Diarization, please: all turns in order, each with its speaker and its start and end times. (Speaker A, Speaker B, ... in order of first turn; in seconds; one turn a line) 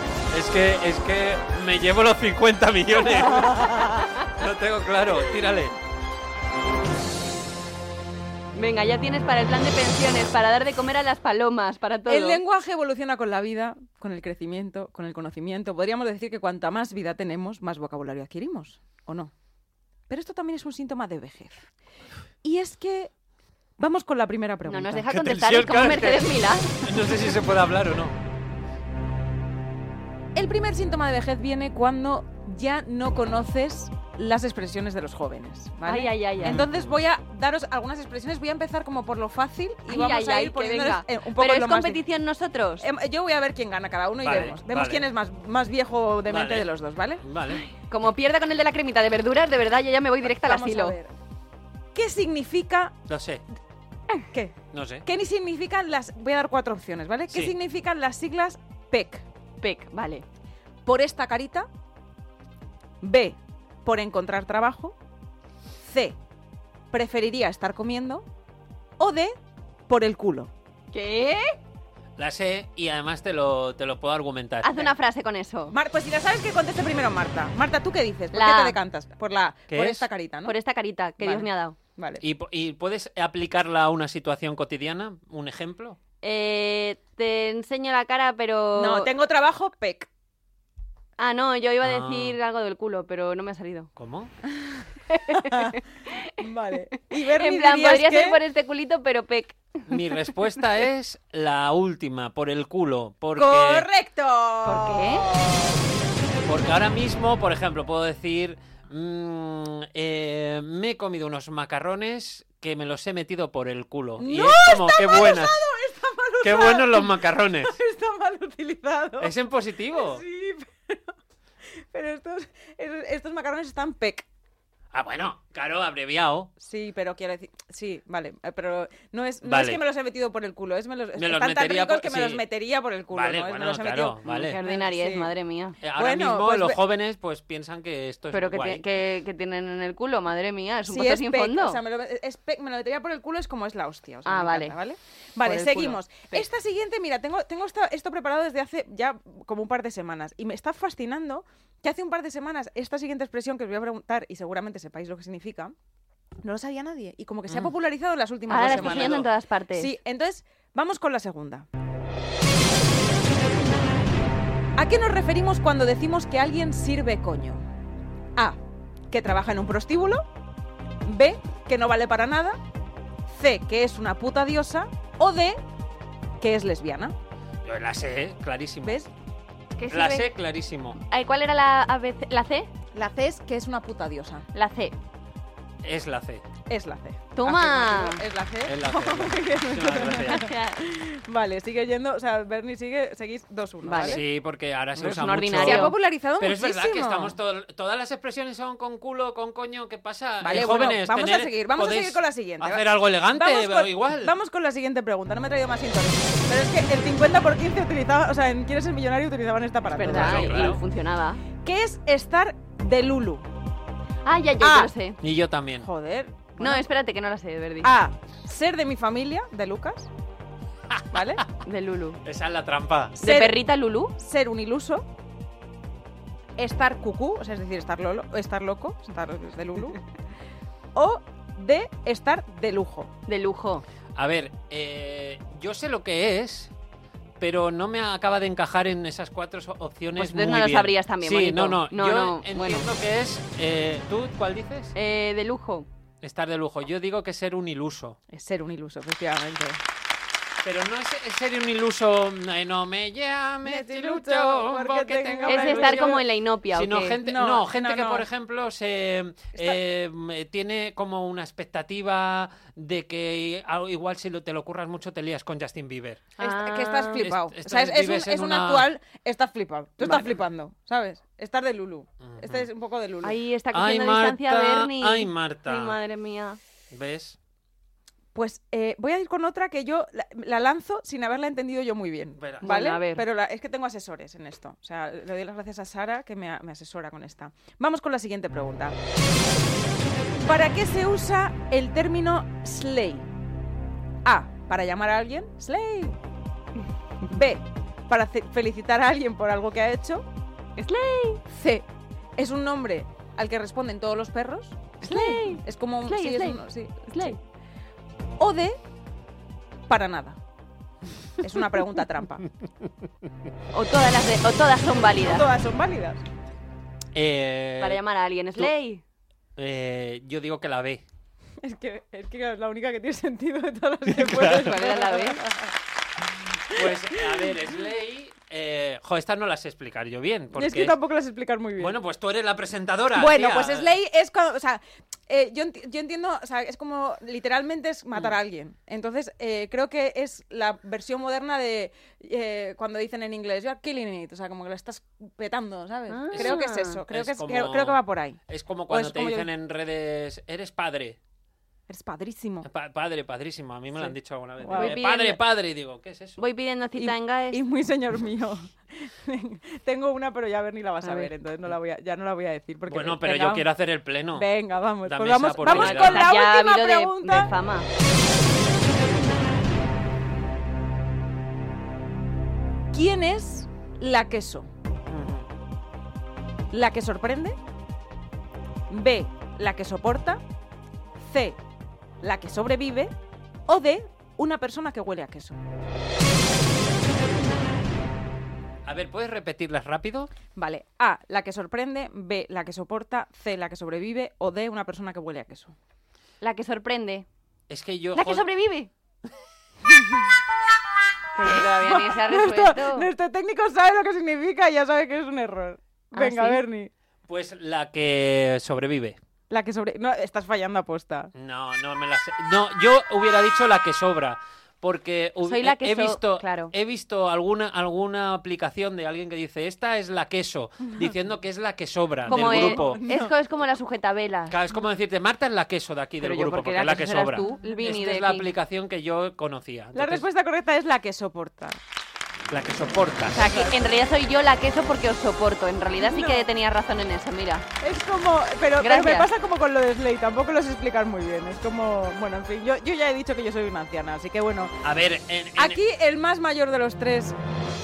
Speaker A: 0.3-5.8
Speaker B: 8.6-12.4
Speaker C: 12.1-19.3
Speaker C: 20.1-21.7
Speaker C: 22.4-23.1
Speaker C: 23.8-25.1
Speaker B: 24.7-26.9
Speaker A: 25.1-28.2
Speaker C: 30.4-42.0
Speaker B: 35.9-36.6
Speaker A: 36.4-36.8
Speaker B: 39.9-42.9
Speaker C: 42.8-47.2
Speaker A: 44.2-45.1
Speaker A: 46.3-46.7
Speaker A: 47.2-47.7
Speaker B: 47.7-51.0
Speaker C: 50.4-51.1
Speaker C: 52.0-53.0
Speaker A: 53.1-53.4
Speaker C: 54.3-59.2
Speaker A: 54.7-55.1
Speaker A: 57.3-57.6
Speaker B: 59.6-60.2
Speaker C: 60.9-61.7
Speaker C: 63.0-65.0
Speaker C: 65.8-66.2
Speaker C: 66.9-68.3
Speaker C: 69.0-69.3
Speaker C: 69.9-70.5
Speaker B: 70.9-71.6
Speaker A: 72.2-74.9
Speaker B: 74.6-75.8
Speaker C: 75.7-80.5
Speaker B: 78.3-78.8
Speaker A: 79.7-80.1
Speaker B: 80.5-81.8
Speaker C: 81.2-82.2
Speaker A: 82.2-86.0
Speaker B: 86.2-89.1
Speaker C: 88.8-90.1
Speaker B: 91.2-93.9
Speaker A: 91.8-92.4
Speaker A: 94.0-94.3
Speaker C: 94.5-95.8
Speaker B: 95.1-96.3
Speaker C: 96.4-98.4
Speaker B: 97.1-100.0
Speaker A: 99.9-103.9
Speaker C: 103.4-105.8
Speaker B: 104.7-105.3
Speaker A: 106.5-115.6
Speaker C: 114.2-119.3
Speaker A: 116.4-117.8
Speaker A: 119.2-120.2
Speaker C: 119.9-121.1
Speaker C: 121.8-124.3
Speaker A: 124.9-126.5
Speaker C: 126.6-135.3
Speaker A: 129.4-129.8
Speaker A: 131.2-132.4
Speaker A: 133.1-134.6
Speaker B: 134.3-135.8
Speaker A: 135.8-138.9
Speaker C: 135.9-136.8
Speaker B: 138.3-141.8
Speaker C: 140.9-155.8
Speaker B: 144.2-144.8
Speaker B: 145.4-146.4
Speaker C: 156.4-161.7
Speaker B: 158.5-159.9
Speaker A: 158.6-159.3
Speaker C: 164.8-167.6
Speaker C: 169.1-170.2
Speaker C: 171.1-172.6
Speaker C: 173.3-175.6
Speaker C: 176.4-177.1
Speaker A: 177.6-179.0
Speaker C: 178.8-179.1
Speaker B: 179.8-180.3
Speaker A: 179.9-181.0
Speaker B: 181.0-182.7
Speaker C: 182.9-184.5
Speaker B: 184.5-184.9
Speaker A: 185.8-186.4
Speaker C: 186.7-194.2
Speaker B: 187.3-188.2
Speaker A: 188.7-190.5
Speaker B: 190.0-190.8
Speaker B: 193.8-194.2
Speaker A: 194.0-204.3
Speaker B: 195.0-196.0
Speaker C: 195.5-197.4
Speaker C: 200.4-210.8
Speaker B: 209.9-211.4
Speaker A: 210.1-210.8
Speaker C: 211.6-213.4
Speaker B: 214.2-215.2
Speaker C: 214.6-214.9
Speaker A: 215.2-215.9
Speaker C: 215.8-216.8
Speaker B: 216.6-217.9
Speaker C: 217.8-220.1
Speaker A: 220.9-221.5
Speaker C: 221.1-221.4
Speaker B: 221.6-222.2
Speaker A: 222.2-223.2
Speaker C: 223.2-223.6
Speaker B: 223.2-224.1
Speaker C: 224.2-225.1
Speaker C: 226.6-230.0
Speaker C: 230.9-233.1
Speaker B: 233.3-233.8
Speaker A: 234.1-236.7
Speaker A: 237.4-244.9
Speaker B: 240.2-242.9
Speaker B: 244.9-245.9
Speaker A: 246.2-248.2
Speaker C: 248.3-249.8
Speaker A: 250.6-266.3
Speaker C: 253.6-256.2
Speaker B: 255.5-257.2
Speaker C: 257.2-258.2
Speaker B: 266.4-267.2
Speaker C: 266.4-273.4
Speaker A: 267.1-268.9
Speaker A: 272.2-272.7
Speaker B: 273.2-276.6
Speaker A: 273.7-276.0
Speaker A: 276.9-277.4
Speaker C: 278.3-289.0
Speaker A: 282.4-282.7
Speaker B: 282.6-283.2
Speaker C: 290.4-293.3
Speaker C: 294.2-296.2
Speaker C: 297.2-300.2
Speaker B: 300.8-301.4
Speaker C: 301.5-301.9
Speaker C: 302.4-307.4
Speaker B: 305.0-307.4
Speaker C: 308.4-308.8
Speaker C: 309.9-310.4
Speaker C: 311.4-312.5
Speaker B: 313.7-315.5
Speaker C: 315.2-316.2
Speaker A: 317.1-318.0
Speaker B: 317.8-319.0
Speaker A: 319.6-321.0
Speaker C: 321.6-325.8
Speaker A: 324.1-324.7
Speaker B: 324.3-325.4
Speaker C: 326.7-327.5
Speaker A: 326.7-331.0
Speaker C: 330.5-331.9
Speaker A: 331.8-333.9
Speaker C: 333.1-349.5
Speaker B: 346.1-347.0
Speaker A: 346.3-351.2
Speaker C: 351.9-352.7
Speaker A: 352.6-356.4
Speaker C: 354.0-355.0
Speaker B: 354.7-355.4
Speaker B: 356.4-357.6
Speaker C: 357.0-363.6
Speaker B: 361.0-361.3
Speaker A: 362.9-364.5
Speaker C: 364.3-367.5
Speaker A: 365.1-366.3
Speaker B: 365.6-367.9
Speaker C: 372.9-374.7
Speaker A: 375.1-375.5
Speaker C: 376.7-377.6
Speaker C: 378.9-380.4
Speaker C: 381.2-381.6
Speaker C: 382.2-383.1
Speaker C: 383.7-385.6
Speaker A: 388.9-390.3
Speaker C: 390.6-395.8
Speaker B: 396.4-397.2
Speaker A: 397.7-398.5
Speaker B: 398.1-398.9
Speaker C: 399.9-400.2
Speaker C: 401.4-406.9
Speaker B: 401.4-403.1
Speaker B: 406.1-406.6
Speaker A: 407.3-409.2
Speaker C: 409.5-411.3
Speaker A: 411.3-423.0
Speaker B: 415.4-416.7
Speaker C: 422.3-423.3
Speaker B: 422.3-424.6
Speaker A: 424.5-430.2
Speaker B: 426.2-428.5
Speaker C: 427.5-427.7
Speaker C: 429.9-431.8
Speaker A: 432.5-433.5
Speaker B: 433.3-437.6
Speaker C: 433.4-434.0
Speaker C: 436.0-436.5
Speaker C: 437.8-444.8
Speaker B: 438.8-439.3
Speaker A: 444.8-445.8
Speaker C: 445.6-447.4